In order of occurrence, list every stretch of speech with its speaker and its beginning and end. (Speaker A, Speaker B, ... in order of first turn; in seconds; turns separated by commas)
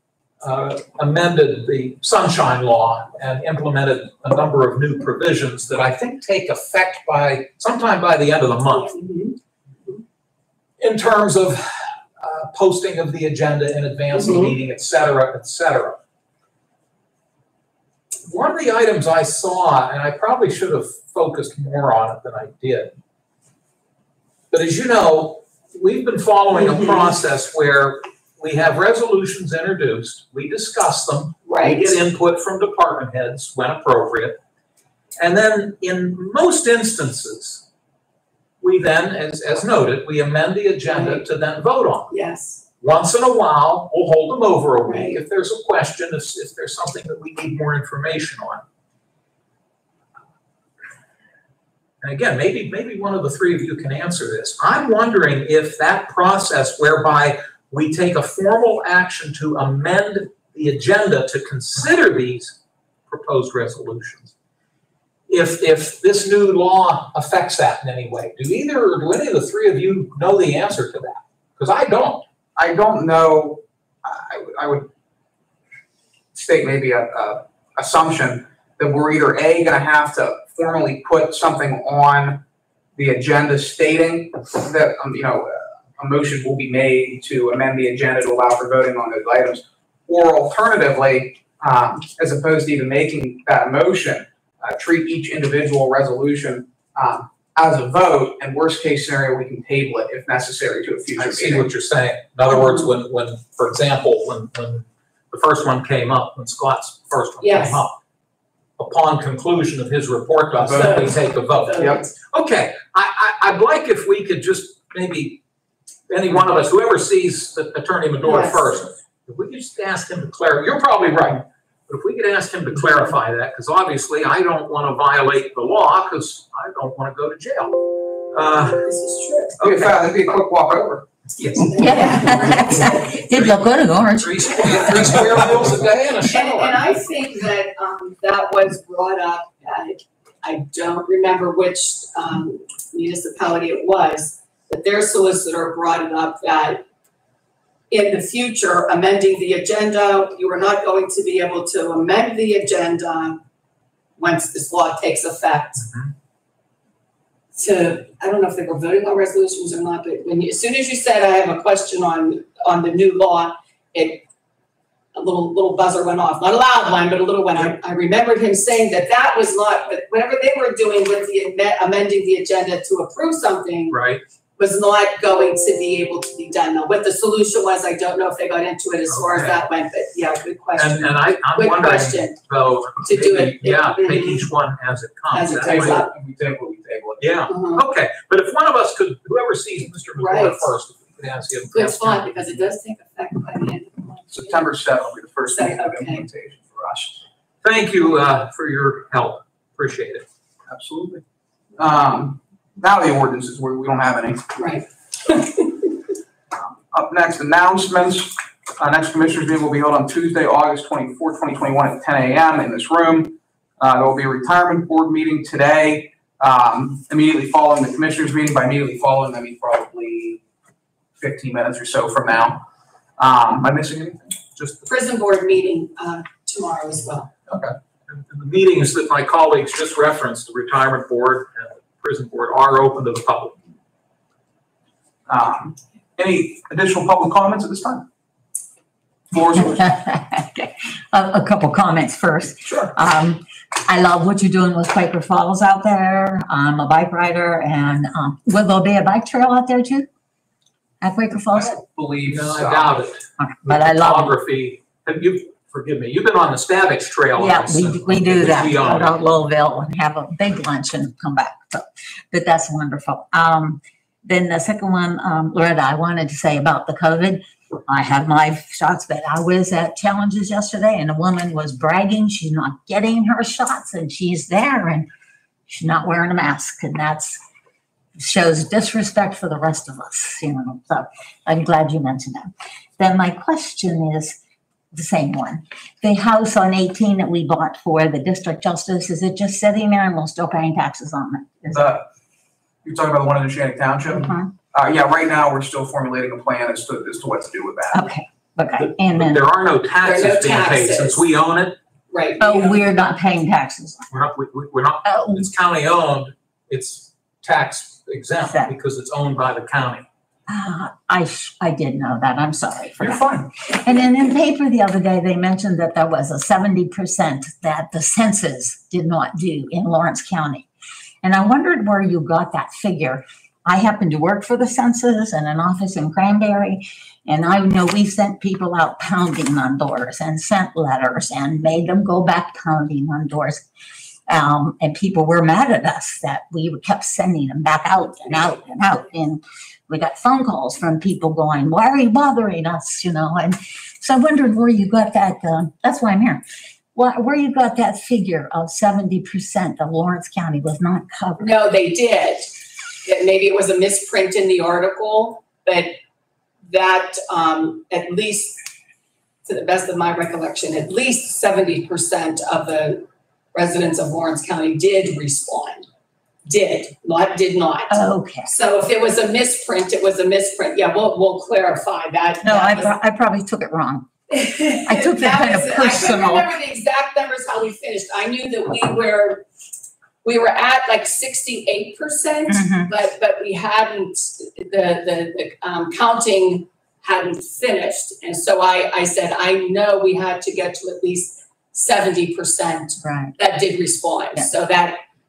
Speaker A: 0.4-9.0, Speaker B: 8.7-10.0, Speaker A: 10.8-16.0, Speaker B: 14.1-14.6, Speaker A: 18.2-22.9, Speaker A: 24.5-34.4, Speaker B: 26.5-27.2, Speaker B: 31.4-32.0, Speaker A: 35.2-37.6, Speaker A: 38.6-42.2, Speaker B: 40.9-41.2, Speaker B: 42.1-42.6, Speaker A: 42.8-48.6, Speaker B: 44.9-45.2, Speaker A: 52.0-64.3, Speaker A: 65.3-72.2, Speaker C: 72.6-74.9, Speaker C: 76.3-82.4, Speaker C: 83.0-101.7, Speaker A: 101.2-108.0, Speaker B: 102.5-102.9, Speaker B: 107.4-107.9, Speaker A: 108.8-115.4, Speaker C: 110.6-111.1, Speaker B: 110.7-112.2, Speaker A: 116.1-127.8, Speaker B: 118.2-118.8, Speaker A: 128.3-128.9, Speaker B: 128.8-129.6, Speaker A: 129.6-130.0, Speaker C: 129.6-131.1, Speaker A: 131.4-137.0, Speaker B: 131.6-133.1, Speaker D: 131.8-135.0, Speaker B: 134.7-146.8, Speaker B: 147.9-153.4, Speaker B: 154.2-155.9, Speaker A: 155.8-156.1, Speaker B: 157.5-164.2, Speaker B: 165.1-174.0, Speaker A: 173.9-174.2, Speaker B: 174.6-182.4, Speaker A: 179.1-179.6, Speaker A: 180.8-186.0, Speaker B: 183.0-184.5, Speaker B: 185.3-186.1, Speaker C: 185.5-187.4, Speaker A: 187.2-192.7, Speaker B: 187.5-187.8, Speaker B: 190.2-190.7, Speaker B: 191.7-194.6, Speaker C: 194.3-197.2, Speaker B: 195.5-196.3, Speaker A: 197.6-200.3, Speaker C: 200.7-201.2, Speaker C: 201.8-204.5, Speaker B: 204.6-205.7, Speaker C: 206.5-220.4, Speaker C: 221.2-222.7, Speaker C: 223.2-224.8, Speaker B: 224.8-227.3, Speaker C: 227.5-227.8, Speaker A: 228.1-233.6, Speaker C: 235.3-238.1, Speaker C: 239.3-239.9, Speaker D: 239.6-250.1, Speaker C: 242.7-242.9, Speaker D: 251.0-251.8, Speaker C: 251.5-253.0, Speaker A: 252.3-259.2, Speaker D: 253.4-254.3, Speaker D: 257.4-275.1, Speaker D: 275.7-277.4, Speaker D: 278.2-284.4, Speaker D: 284.9-292.0, Speaker C: 291.7-292.1, Speaker C: 292.8-298.0, Speaker D: 294.1-294.5, Speaker D: 297.9-299.5, Speaker A: 298.8-301.8, Speaker B: 300.0-301.2, Speaker B: 302.1-302.9, Speaker D: 302.4-304.1, Speaker A: 304.1-310.1, Speaker D: 305.0-305.5, Speaker D: 308.5-308.7, Speaker D: 310.5-320.7, Speaker A: 313.0-313.5, Speaker D: 321.2-333.7, Speaker D: 334.3-346.4, Speaker D: 346.9-351.5, Speaker B: 351.4-352.5, Speaker B: 353.1-356.0, Speaker B: 356.7-358.6, Speaker B: 359.4-365.9, Speaker B: 366.5-373.0, Speaker D: 367.9-368.5, Speaker D: 372.4-374.1, Speaker B: 374.3-379.5, Speaker D: 374.9-376.5, Speaker B: 380.2-395.0, Speaker D: 382.5-382.9, Speaker D: 393.0-393.3